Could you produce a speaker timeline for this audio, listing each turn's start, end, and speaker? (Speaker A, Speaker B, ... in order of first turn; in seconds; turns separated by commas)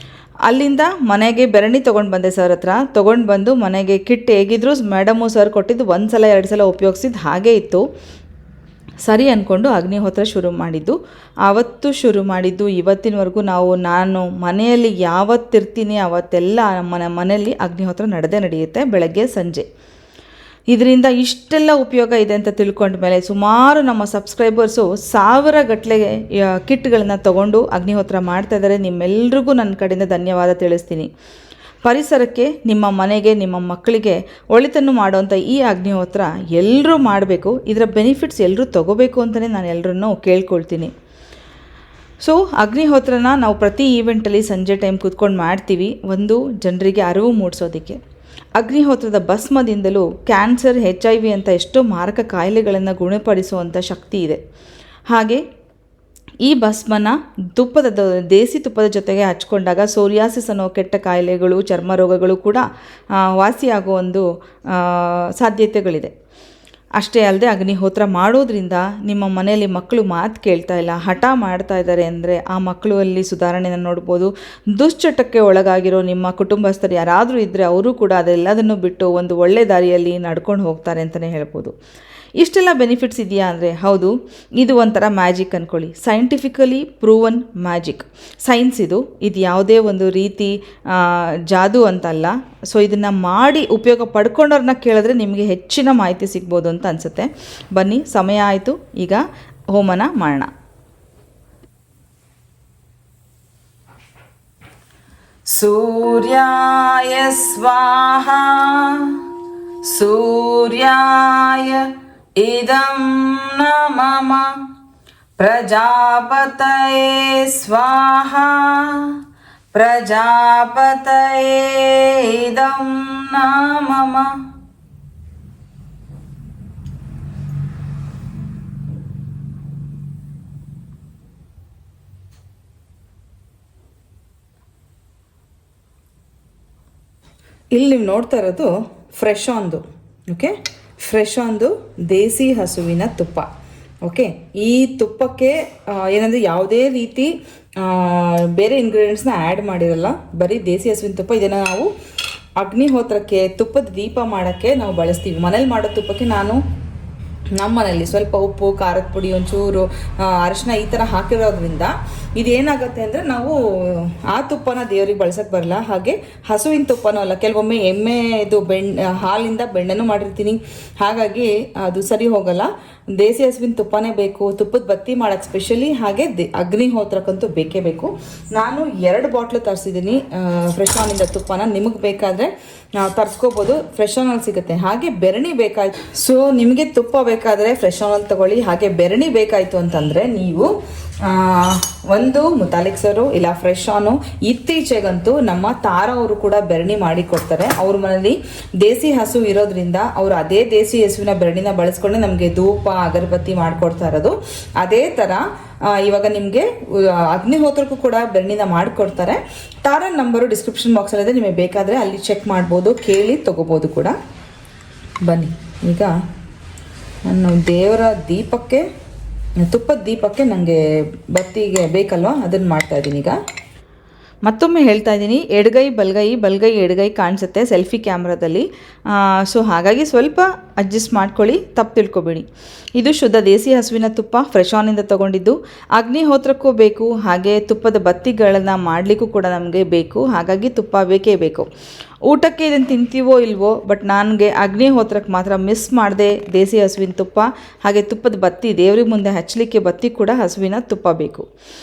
Speaker A: 0.5-7.8, Speaker A: 9.0-19.6, Speaker A: 20.7-31.1, Speaker A: 31.8-40.9, Speaker A: 42.2-48.0, Speaker A: 48.6-54.4, Speaker A: 55.1-55.4, Speaker A: 56.4-62.6, Speaker A: 63.2-66.1, Speaker A: 67.0-81.7, Speaker A: 82.4-100.5, Speaker A: 105.5-109.2, Speaker A: 109.8-114.6, Speaker A: 115.4-119.2, Speaker A: 119.7-124.4, Speaker A: 137.7-143.5, Speaker A: 144.0-151.9, Speaker A: 152.6-156.6, Speaker A: 157.6-190.7, Speaker A: 191.2-214.1, Speaker A: 215.2-216.1, Speaker A: 217.2-218.8, Speaker A: 219.6-220.8, Speaker A: 221.3-223.4, Speaker A: 224.4-241.7, Speaker A: 242.2-251.5